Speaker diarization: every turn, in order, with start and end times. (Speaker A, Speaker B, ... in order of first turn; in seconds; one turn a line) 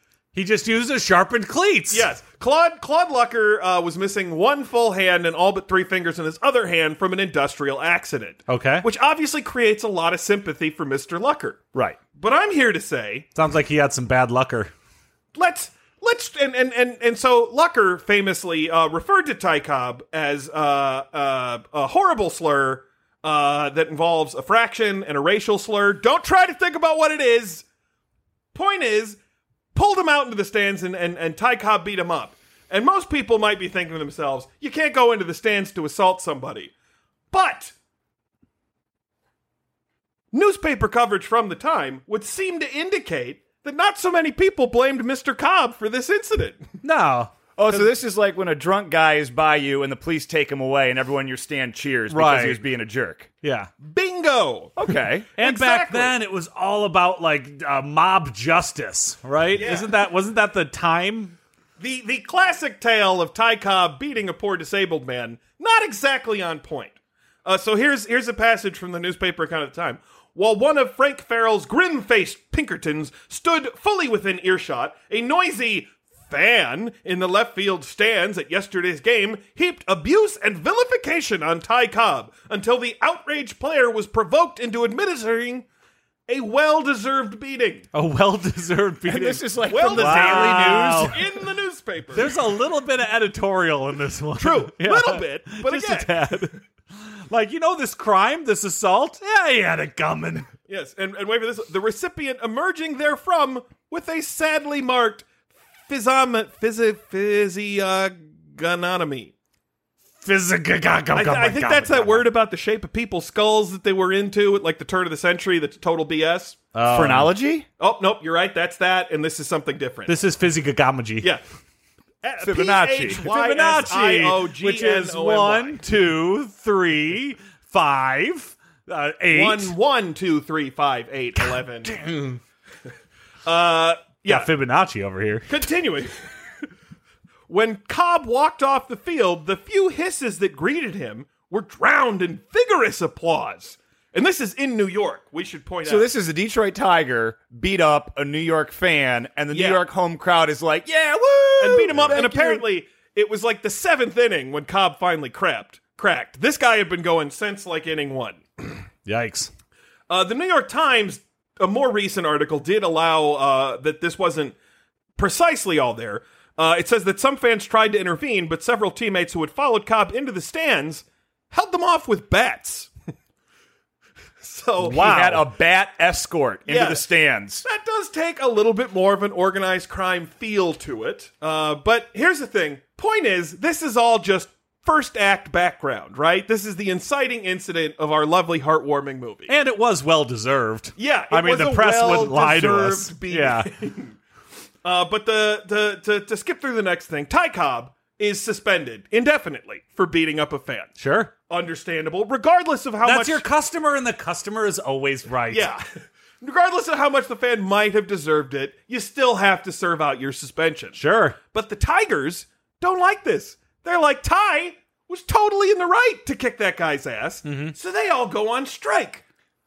Speaker A: 0.3-2.1
Speaker B: 1.9-13.3
Speaker A: 8.5-8.8
Speaker A: 13.3-14.7
Speaker B: 15.3-27.7
Speaker B: 28.5-29.2
Speaker B: 29.7-36.7
Speaker B: 37.3-37.7
Speaker B: 40.3-46.7
Speaker A: 46.8-47.9
Speaker C: 47.6-53.3
Speaker A: 52.1-52.6
Speaker A: 53.4-53.7
Speaker B: 53.8-54.7
Speaker C: 54.8-55.3
Speaker A: 55.4-61.4
Speaker B: 55.4-56.2
Speaker B: 59.5-59.9
Speaker B: 61.8-85.7
Speaker B: 86.3-87.9
Speaker A: 87.9-91.2
Speaker C: 89.1-91.3
Speaker B: 89.7-92.4
Speaker A: 92.1-100.5
Speaker B: 94.4-96.5
Speaker B: 100.7-105.3
Speaker B: 105.9-109.3
Speaker A: 110.2-112.3
Speaker B: 111.1-116.6
Speaker A: 116.8-117.3
Speaker C: 116.9-117.7
Speaker B: 117.8-120.2
Speaker A: 120.1-121.3
Speaker B: 122.2-125.8
Speaker C: 122.4-123.3
Speaker A: 123.1-129.7
Speaker B: 129.3-132.0
Speaker A: 131.4-132.4
Speaker B: 133.4-134.5
Speaker A: 134.3-135.6
Speaker B: 135.5-136.1
Speaker B: 137.5-146.1
Speaker C: 145.8-152.7
Speaker B: 149.5-149.8
Speaker B: 151.6-158.8
Speaker A: 159.1-159.5
Speaker B: 160.1-164.6
Speaker B: 165.2-172.9
Speaker B: 174.4-175.2
Speaker C: 174.8-177.6
Speaker A: 175.0-175.5
Speaker B: 176.7-177.1
Speaker B: 177.6-189.5
Speaker A: 189.5-193.7
Speaker B: 191.0-194.2
Speaker B: 194.8-200.9
Speaker A: 201.0-201.3
Speaker B: 201.5-203.4
Speaker A: 203.0-205.7
Speaker B: 205.5-205.8
Speaker B: 206.4-211.0
Speaker A: 210.9-211.4
Speaker B: 211.5-219.2
Speaker A: 217.4-217.7